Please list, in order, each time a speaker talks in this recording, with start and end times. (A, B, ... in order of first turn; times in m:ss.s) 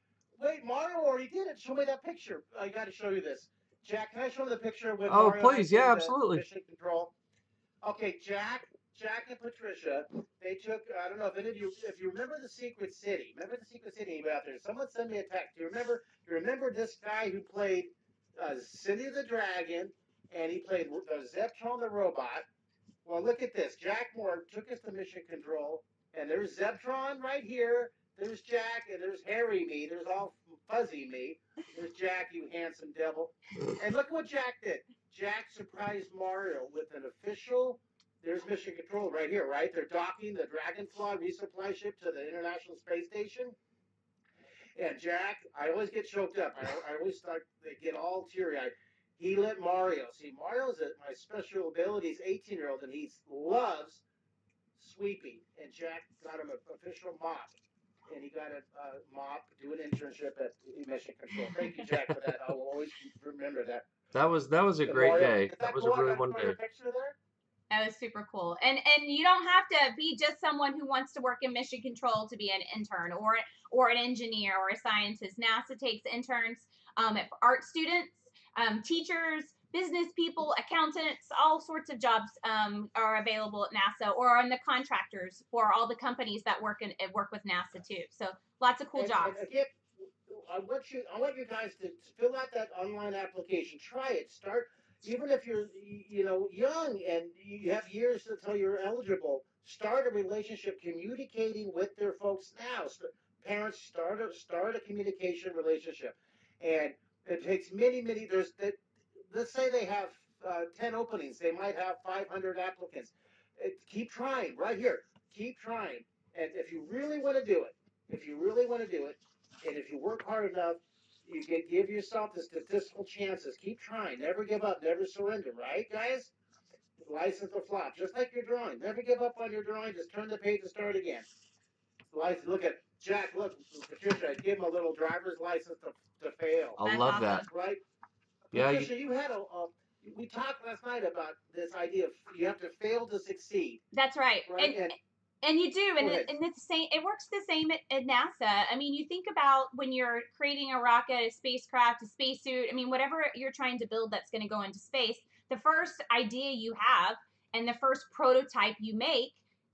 0:00.4-0:07.1 A
0:05.0-0:06.4 B
0:07.8-0:22.4 A
0:23.0-0:43.6 A
0:44.8-0:54.0 A
0:54.8-0:57.5 A
0:58.1-1:03.8 A
1:04.1-1:06.6 B
1:04.9-1:07.2 A
1:07.7-1:29.4 C
1:29.0-1:29.7 A
1:30.3-2:06.3 A
2:07.0-2:11.2 A
2:12.1-2:16.8 A
2:16.8-2:17.5 B
2:16.8-2:17.5 C
2:17.4-2:17.8 A
2:18.5-2:23.8 A
2:18.5-2:18.9 B
2:23.9-2:39.4 C
2:24.5-2:24.9 A
2:26.0-2:26.3 A